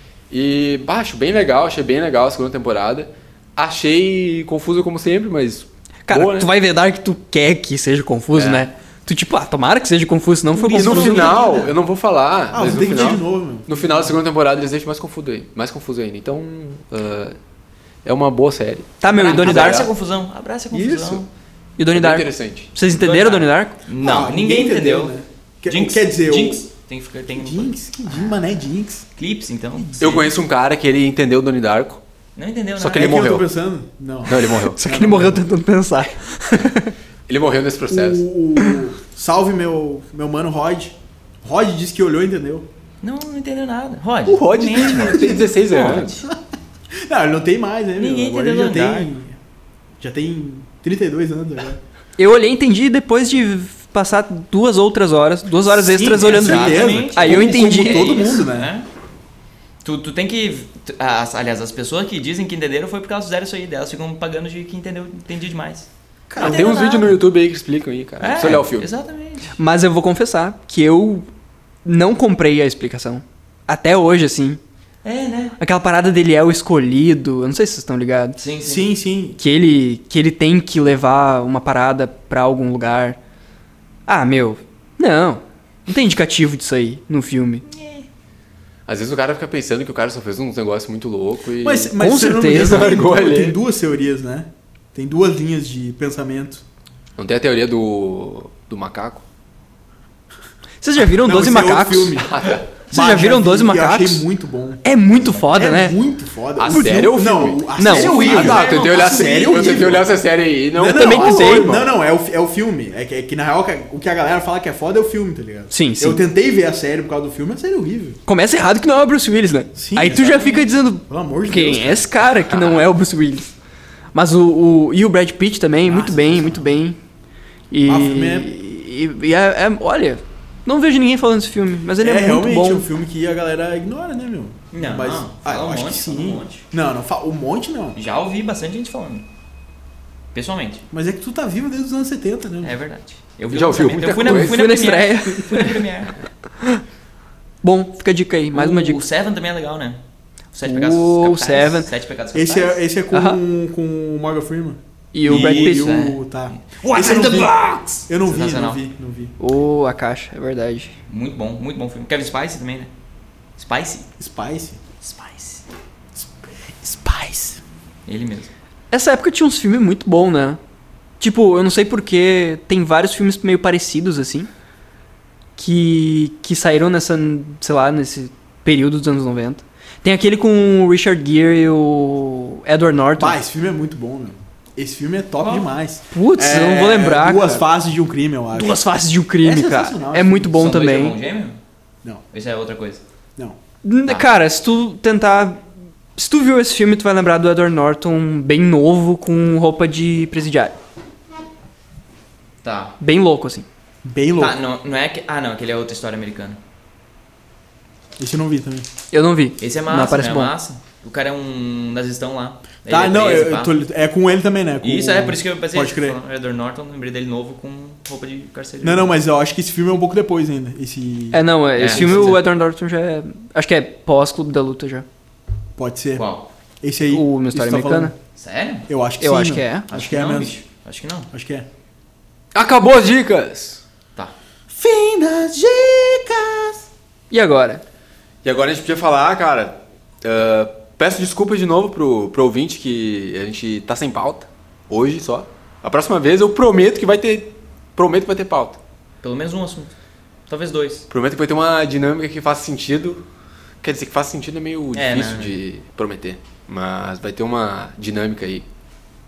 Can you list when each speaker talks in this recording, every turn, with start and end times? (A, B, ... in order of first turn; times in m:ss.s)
0:00.3-0:06.5 A
0:06.1-0:11.4 B
0:08.3-0:08.7 A
0:10.6-0:11.7 C
0:10.7-0:17.4 A
0:12.5-0:14.2 C
0:18.0-0:19.9 A
0:19.0-0:19.9 B
0:19.0-0:21.3 D
0:20.7-0:21.2 A
0:21.8-0:23.8 B
0:21.9-0:22.7 A
0:22.9-0:25.2 D
0:24.0-0:26.7 C
0:25.7-0:28.5 D
0:27.3-0:29.0 C
0:29.2-0:30.3 D
0:30.0-0:32.0 A
0:32.4-0:33.2 D
0:32.8-0:33.5 A
0:32.9-0:35.5 C
0:34.3-0:34.8 A
0:34.7-0:36.9 B
0:37.3-0:38.2 A
0:37.9-0:42.7 C
0:43.0-0:46.3 D
0:44.3-0:46.2 A
0:44.8-0:45.4 C
0:47.0-0:49.4 C
0:48.0-0:49.1 D
0:50.0-0:51.8 C
0:52.2-0:58.3 B
0:55.7-0:58.7 C
0:56.1-0:58.9 D
0:59.8-1:07.2 D
1:06.3-1:06.8 C
1:06.4-1:08.9 A
1:08.2-1:09.6 D
1:09.6-1:11.3 B
1:11.8-1:14.6 B
1:15.0-1:15.6 D
1:15.6-1:18.4 B
1:18.4-1:18.9 D
1:18.6-1:19.4 C
1:19.4-1:23.2 B
1:24.1-1:27.6 B
1:27.6-1:28.1 D
1:28.9-1:32.0 A
1:31.6-1:36.6 C
1:32.0-1:32.9 B
1:32.5-1:33.6 A
1:37.2-1:39.2 A
1:40.8-1:42.2 B
1:41.1-1:50.2 C
1:42.2-1:42.7 A
1:42.9-1:44.2 B
1:44.8-1:46.0 B
1:46.6-1:51.9 A
1:46.7-1:47.1 B
1:47.8-1:48.6 B
1:48.3-1:49.6 D
1:50.7-1:58.2 C
1:50.9-1:51.8 B
1:55.7-1:56.2 B
1:58.3-2:03.5 B
1:59.8-2:02.1 C
2:02.5-2:02.8 A
2:04.1-2:07.0 B
2:05.9-2:06.7 C
2:07.7-2:12.9 B
2:07.9-2:08.5 C
2:12.0-2:18.0 C
2:14.7-2:16.7 D
2:17.9-2:19.3 D
2:20.3-2:20.9 D
2:20.9-2:22.8 C
2:22.6-2:26.2 D
2:23.5-2:24.7 A
2:24.2-2:25.8 B
2:27.6-2:29.0 B
2:28.5-2:30.0 D
2:30.5-2:32.8 D
2:30.7-2:31.9 B
2:32.3-2:37.5 C
2:33.1-2:33.4 B
2:35.1-2:36.0 B
2:35.3-2:36.6 D
2:36.9-2:38.0 B
2:38.1-2:39.4 C
2:38.2-2:38.8 D
2:39.4-2:40.9 B
2:41.1-2:42.9 D
2:43.6-2:44.1 D
2:44.2-2:44.8 C
2:45.0-2:45.6 D
2:46.2-2:47.6 C
2:48.1-2:48.5 D
2:48.9-2:50.6 B
2:51.2-2:54.5 B
2:55.6-3:03.4 B
3:03.2-3:08.8 C
3:05.4-3:05.7 D
3:06.1-3:07.6 B
3:08.5-3:11.2 B
3:09.4-3:10.7 C
3:10.5-3:11.6 D
3:12.3-3:13.0 D
3:13.8-3:15.6 B
3:16.2-3:20.8 B
3:22.6-3:23.0 D
3:23.0-3:23.7 B
3:24.0-3:24.6 C
3:24.4-3:26.6 D
3:28.2-3:28.9 C
3:29.1-3:30.5 B
3:29.6-3:33.8 D
3:32.9-3:36.2 C
3:34.8-3:39.2 D
3:38.8-3:42.4 C
3:41.3-3:45.1 B
3:41.8-3:42.4 D
3:45.8-3:46.3 C
3:46.2-3:46.5 D
3:46.8-3:48.2 C
3:47.1-3:48.1 B
3:48.4-3:48.9 D
3:48.9-3:50.5 C
3:49.2-3:49.9 B
3:49.9-3:51.3 D
3:51.3-3:51.7 C
3:52.5-3:53.8 A
3:54.7-3:56.9 C
3:57.3-3:57.8 B
3:58.4-4:08.8 A
4:09.2-4:10.0 D
4:10.5-4:11.1 D
4:11.1-4:13.2 A
4:13.8-4:18.7 A
4:14.9-4:15.6 D